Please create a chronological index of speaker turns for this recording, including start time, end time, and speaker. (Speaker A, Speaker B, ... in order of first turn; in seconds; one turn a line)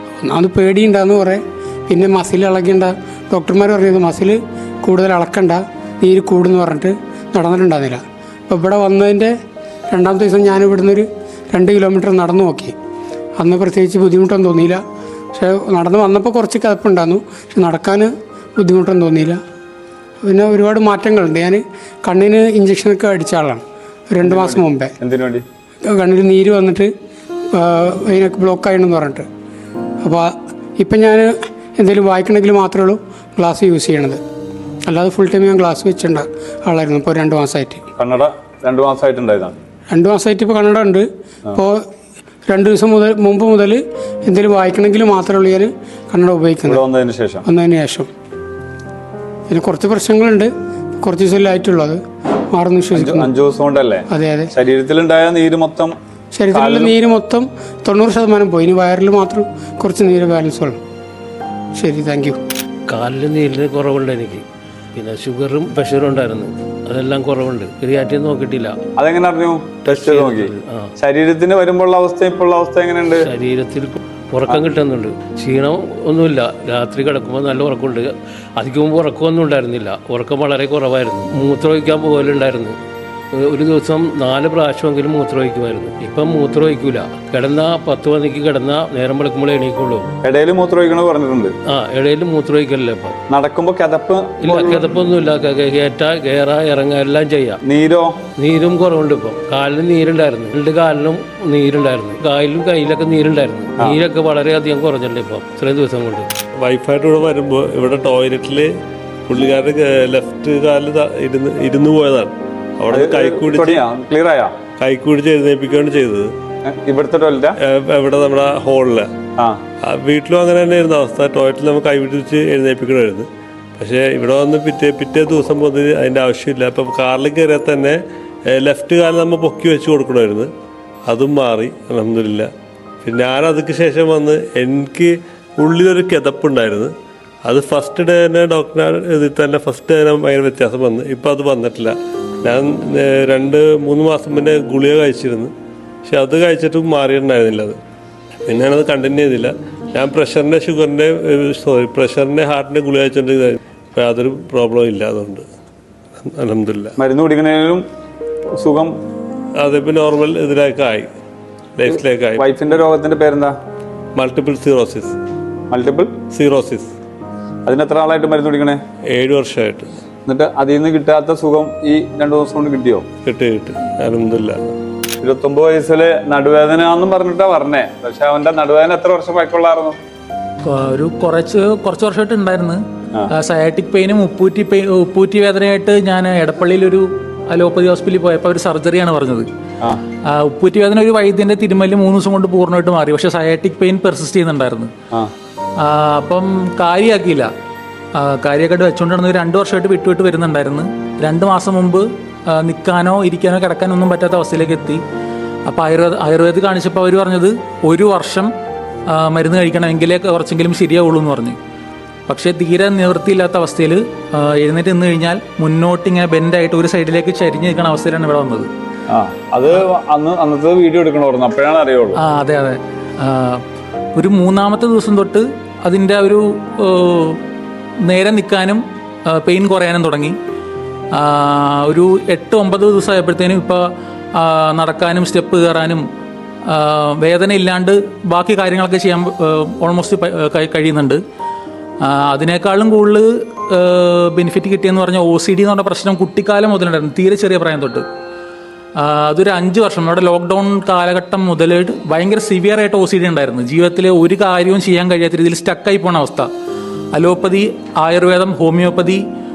Speaker A: 0.2-9.3
Speaker A: 9.9-12.7
Speaker A: 13.4-14.8
Speaker A: 15.3-19.4
Speaker A: 20.2-25.0
Speaker B: 24.2-25.4
Speaker A: 25.9-26.9
Speaker A: 27.5-29.3
Speaker A: 30.0-34.2
Speaker A: 34.9-37.8
Speaker B: 38.0-39.5
Speaker A: 39.9-41.8
Speaker A: 42.5-46.8
Speaker B: 46.7-47.4
Speaker A: 47.5-48.1
Speaker A: 49.5-50.5
Speaker A: 51.0-52.0
Speaker A: 52.5-53.3
Speaker B: 53.0-54.0
Speaker A: 54.1-54.5
Speaker B: 54.6-55.9
Speaker A: 56.3-60.8
Speaker B: 56.5-56.9
Speaker A: 61.8-62.4
Speaker C: 62.9-64.4
Speaker C: 65.0-68.8
Speaker B: 69.0-69.8
Speaker C: 69.8-70.9
Speaker B: 71.0-73.0
Speaker C: 73.0-82.8
Speaker C: 83.3-90.1
Speaker B: 90.2-91.5
Speaker C: 91.7-93.2
Speaker B: 93.3-94.5
Speaker C: 94.4-97.6
Speaker B: 97.7-98.1
Speaker C: 98.4-106.3
Speaker D: 106.6-108.7
Speaker D: 109.3-113.9
Speaker B: 112.9-114.5
Speaker D: 114.8-116.3
Speaker B: 116.8-117.5
Speaker D: 117.6-119.1
Speaker D: 119.8-123.3
Speaker D: 123.8-128.0
Speaker D: 128.5-130.5
Speaker D: 131.1-132.5
Speaker D: 133.0-136.9
Speaker D: 137.4-145.5
Speaker D: 146.1-147.8
Speaker D: 148.5-155.4
Speaker D: 156.2-157.0
Speaker B: 157.0-157.8
Speaker B: 158.6-158.9
Speaker D: 159.6-161.1
Speaker D: 161.8-162.5
Speaker B: 162.4-163.5
Speaker D: 164.2-165.2
Speaker B: 165.7-166.1
Speaker D: 166.3-166.9
Speaker B: 167.7-168.8
Speaker D: 169.1-169.9
Speaker B: 170.3-173.1
Speaker D: 173.2-174.6
Speaker B: 175.2-180.0
Speaker E: 180.7-189.5
Speaker E: 190.3-194.9
Speaker E: 195.8-197.5
Speaker E: 198.2-205.0
Speaker E: 205.7-208.5
Speaker E: 209.1-211.6
Speaker E: 212.3-218.7
Speaker B: 219.1-222.1
Speaker E: 222.2-223.6
Speaker E: 224.2-227.4
Speaker E: 228.0-230.4
Speaker E: 231.1-236.1
Speaker E: 236.7-241.2
Speaker E: 242.0-248.1
Speaker E: 249.0-256.5
Speaker E: 257.1-259.2